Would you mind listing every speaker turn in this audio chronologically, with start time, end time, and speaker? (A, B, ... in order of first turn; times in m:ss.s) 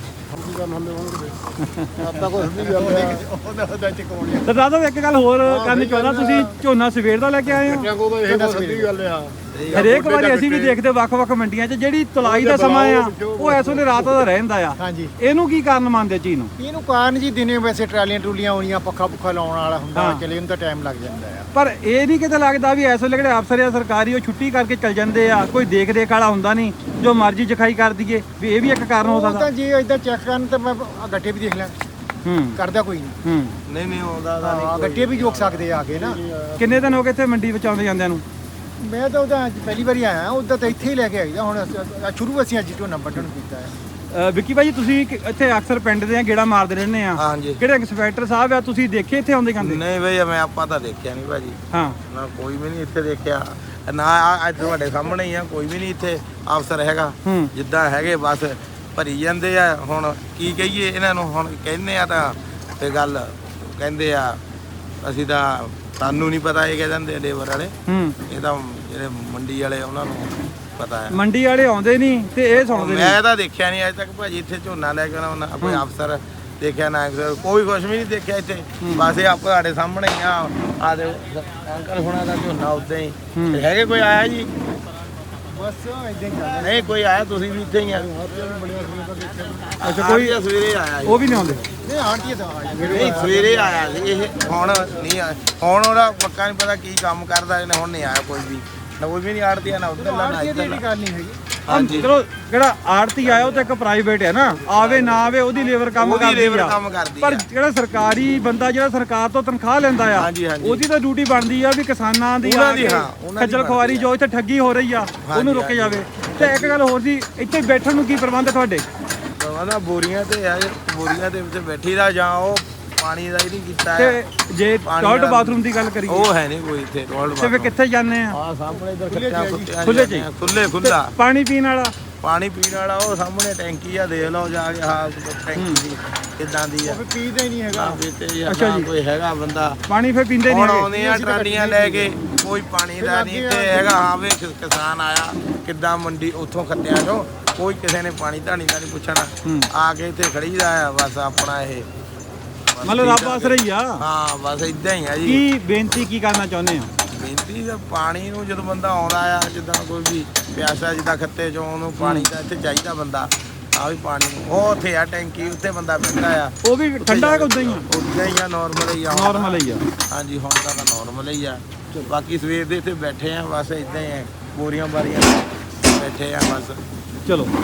0:00.3-0:01.4 A
0:01.6-0:01.9 B
0:02.0-0:03.3 A
0:02.7-0:04.5 C
0:04.4-0:07.9 B
0:05.4-0:06.5 A
0:07.5-0:10.8 A
0:08.3-0:08.9 C
0:09.6-0:09.9 D
0:09.8-0:16.5 B
0:12.2-0:14.3 A
0:14.8-0:15.1 C
0:16.6-0:21.5 C
0:20.0-0:20.2 B
0:21.5-0:29.5 B
0:29.0-0:31.8 C
0:32.2-0:32.6 B
0:32.6-0:33.2 C
0:33.2-0:33.6 B
0:33.7-0:35.5 D
0:34.4-0:36.2 C
0:35.3-0:36.8 A
0:36.6-0:38.2 B
0:38.8-0:43.7 C
0:44.1-0:49.8 B
0:47.2-0:47.6 D
0:49.6-0:51.6 D
0:51.7-0:52.0 B
0:52.1-1:04.4 D
0:57.2-0:57.5 B
1:05.0-1:07.8 D
1:07.9-1:08.2 B
1:08.3-1:11.2 D
1:11.1-1:13.2 B
1:12.5-1:24.5 D
1:18.8-1:19.1 B
1:23.4-1:23.6 B
1:25.5-1:27.0 C
1:26.6-1:28.1 D
1:27.9-1:29.8 A
1:29.8-1:30.4 B
1:29.8-1:31.7 D
1:31.0-1:31.6 B
1:31.8-1:33.8 C
1:32.9-1:40.8 D
1:40.0-1:41.4 C
1:41.7-1:42.1 D
1:41.7-1:58.8 B
1:43.2-1:43.7 D
1:44.6-1:45.2 D
1:46.0-1:47.4 D
1:50.2-1:50.8 D
1:52.4-1:54.1 D
1:55.2-1:56.8 D
1:59.4-2:04.2 D
2:04.0-2:06.3 B
2:04.8-2:07.8 D
2:07.4-2:08.4 B
2:08.3-2:11.1 D
2:09.1-2:09.7 C
2:09.8-2:10.3 B
2:10.8-2:11.9 B
2:12.2-2:17.0 D
2:15.6-2:15.8 B
2:16.8-2:18.0 C
2:17.7-2:19.8 D
2:18.5-2:18.9 B
2:19.9-2:20.9 B
2:20.5-2:31.9 D
2:20.9-2:22.2 C
2:23.0-2:24.0 C
2:29.4-2:29.7 B
2:32.7-2:35.4 D
2:32.8-2:34.0 B
2:35.2-2:36.9 B
2:37.1-2:56.8 D
2:42.0-2:42.3 B
2:46.6-2:47.9 B
2:49.1-2:49.8 B
2:57.3-2:57.5 B